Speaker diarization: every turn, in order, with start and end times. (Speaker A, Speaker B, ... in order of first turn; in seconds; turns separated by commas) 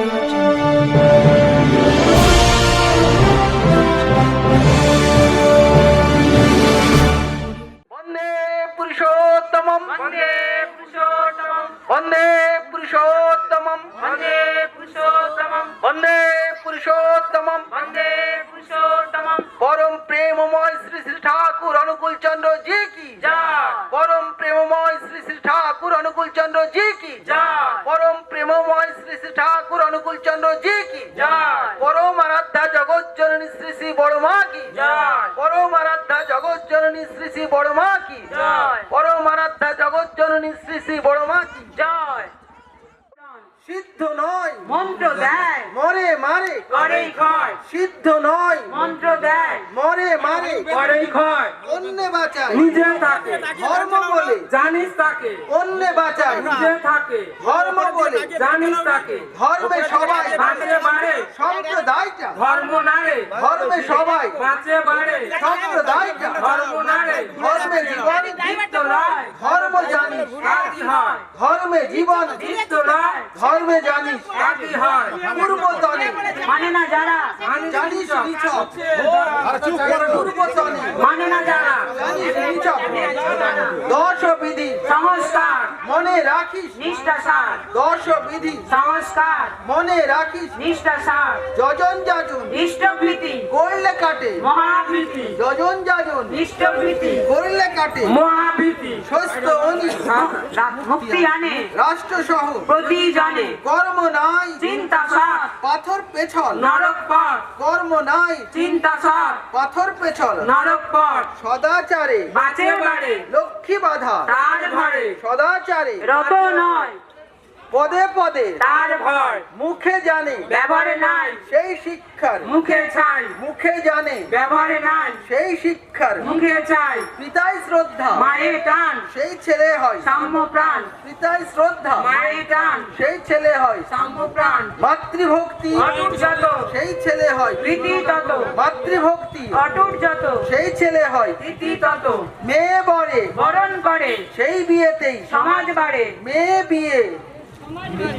Speaker A: 7.9-10.0, Speaker B: 9.9-11.8, Speaker A: 11.9-14.2, Speaker B: 14.0-15.8, Speaker A: 15.8-17.8, Speaker B: 17.7-19.5, Speaker A: 19.6-23.2, Speaker B: 23.2-23.9, Speaker A: 23.9-34.8, Speaker B: 27.2-27.8, Speaker B: 31.1-31.8, Speaker B: 34.7-35.3, Speaker A: 35.3-38.3, Speaker B: 38.3-38.9, Speaker A: 38.9-41.7, Speaker B: 41.7-42.3, Speaker A: 43.6-44.7, Speaker B: 44.6-45.7, Speaker A: 45.7-46.7, Speaker B: 46.7-47.6, Speaker A: 47.6-48.9, Speaker B: 48.7-49.7, Speaker A: 49.7-50.9, Speaker B: 50.7-51.6, Speaker A: 51.6-52.7, Speaker B: 52.5-53.5, Speaker A: 53.5-54.5, Speaker B: 54.5-55.4, Speaker A: 55.5-56.6, Speaker B: 56.3-57.3, Speaker A: 57.4-58.4, Speaker B: 58.3-59.3, Speaker A: 59.3-60.5, Speaker B: 60.3-61.3, Speaker A: 61.3-62.4, Speaker B: 62.3-63.3, Speaker A: 63.3-64.4, Speaker B: 64.3-65.4, Speaker A: 65.3-66.5, Speaker B: 66.3-69.4, Speaker A: 67.3-68.5, Speaker A: 69.3-70.5, Speaker B: 70.3-71.3, Speaker A: 71.3-72.5, Speaker B: 72.3-73.3, Speaker A: 73.3-74.5, Speaker B: 74.3-75.3, Speaker A: 75.2-76.4, Speaker B: 76.3-79.6, Speaker A: 77.6-78.8, Speaker A: 79.4-81.1, Speaker B: 80.9-82.1, Speaker A: 81.9-84.9, Speaker B: 83.0-83.7, Speaker B: 84.8-85.8, Speaker A: 85.8-86.8, Speaker B: 86.7-87.7, Speaker A: 87.7-88.7, Speaker B: 88.7-89.5, Speaker A: 89.6-90.6, Speaker B: 90.5-91.5, Speaker A: 91.5-92.6, Speaker B: 92.5-93.5, Speaker A: 93.5-94.5, Speaker B: 94.4-95.4, Speaker A: 95.3-96.4, Speaker B: 96.3-97.3, Speaker A: 97.0-98.2, Speaker B: 98.0-99.0, Speaker A: 99.0-102.7, Speaker B: 100.0-101.7, Speaker B: 102.7-103.6, Speaker A: 103.5-106.7, Speaker B: 104.6-105.5, Speaker B: 106.5-107.5, Speaker A: 107.5-108.5, Speaker B: 108.5-109.4, Speaker A: 109.5-110.5, Speaker B: 110.4-111.3, Speaker A: 111.3-112.3, Speaker B: 112.3-113.2, Speaker A: 113.3-114.3, Speaker B: 114.2-115.2, Speaker A: 115.1-116.1, Speaker B: 116.0-117.0, Speaker A: 117.7-118.6, Speaker B: 118.6-119.5, Speaker A: 119.5-120.6, Speaker B: 120.5-121.4, Speaker A: 121.4-122.5, Speaker B: 122.4-123.3, Speaker A: 123.3-124.3, Speaker B: 124.3-125.2, Speaker A: 125.2-126.3, Speaker B: 126.2-127.1, Speaker A: 127.1-128.3, Speaker B: 128.2-129.1, Speaker A: 129.1-130.1, Speaker B: 130.0-130.9, Speaker A: 131.0-132.1, Speaker B: 132.0-132.9, Speaker A: 132.9-133.9, Speaker B: 133.9-134.8, Speaker A: 134.8-137.8, Speaker B: 135.8-136.7, Speaker B: 137.6-138.5, Speaker A: 138.5-139.6, Speaker B: 139.5-140.5, Speaker A: 140.4-141.4, Speaker B: 141.4-142.3, Speaker A: 142.4-143.3, Speaker B: 143.3-144.3, Speaker A: 144.3-145.4, Speaker B: 145.3-146.2, Speaker A: 146.2-147.2